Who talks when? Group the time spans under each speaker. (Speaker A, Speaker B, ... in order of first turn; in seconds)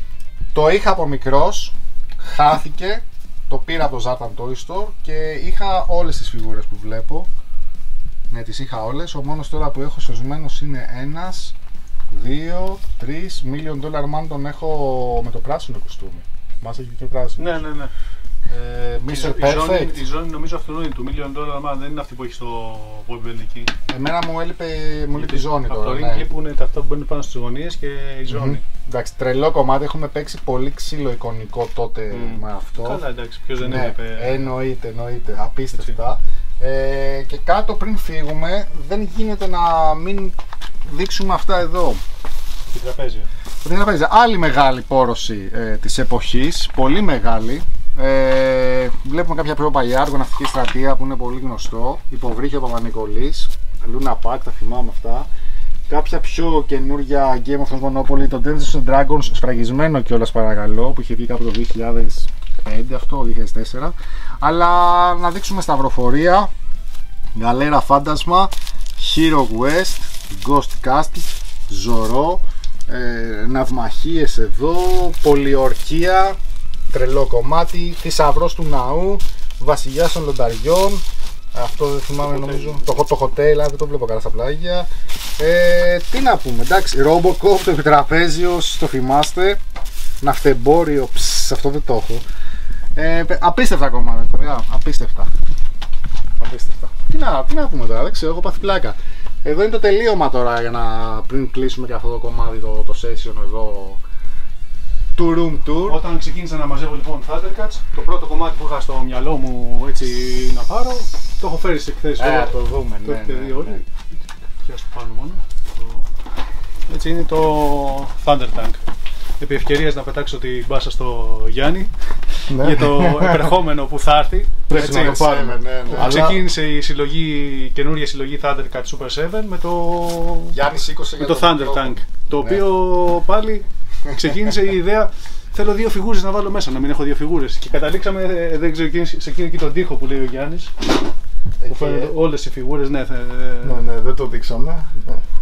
Speaker A: 0.5-7.3, 8.3-11.5, 12.1-17.6, 18.5-20.0, 23.9-26.3, 28.3-33.0, 33.6-42.0, 43.6-55.3, 55.9-66.5, 67.3-76.4, 76.9-81.0, 81.5-89.6, 90.2-92.2, 93.0-95.3, 96.4-104.0, 105.2-106.0, 112.2-113.8, 124.7-126.4, 130.5-132.7, 134.1-134.5, 141.6-142.1
Speaker B: 17.4-17.9, 19.1-23.7, 25.2-28.6, 32.1-34.5, 35.7-36.0, 42.7-43.3, 82.2-82.9, 105.8-113.8, 114.7-116.0, 116.9-118.8, 119.4-125.2, 126.0-130.6, 131.2-140.7, 141.7-143.8
Speaker C: 122.5-123.5, 124.7-126.3, 143.6-145.2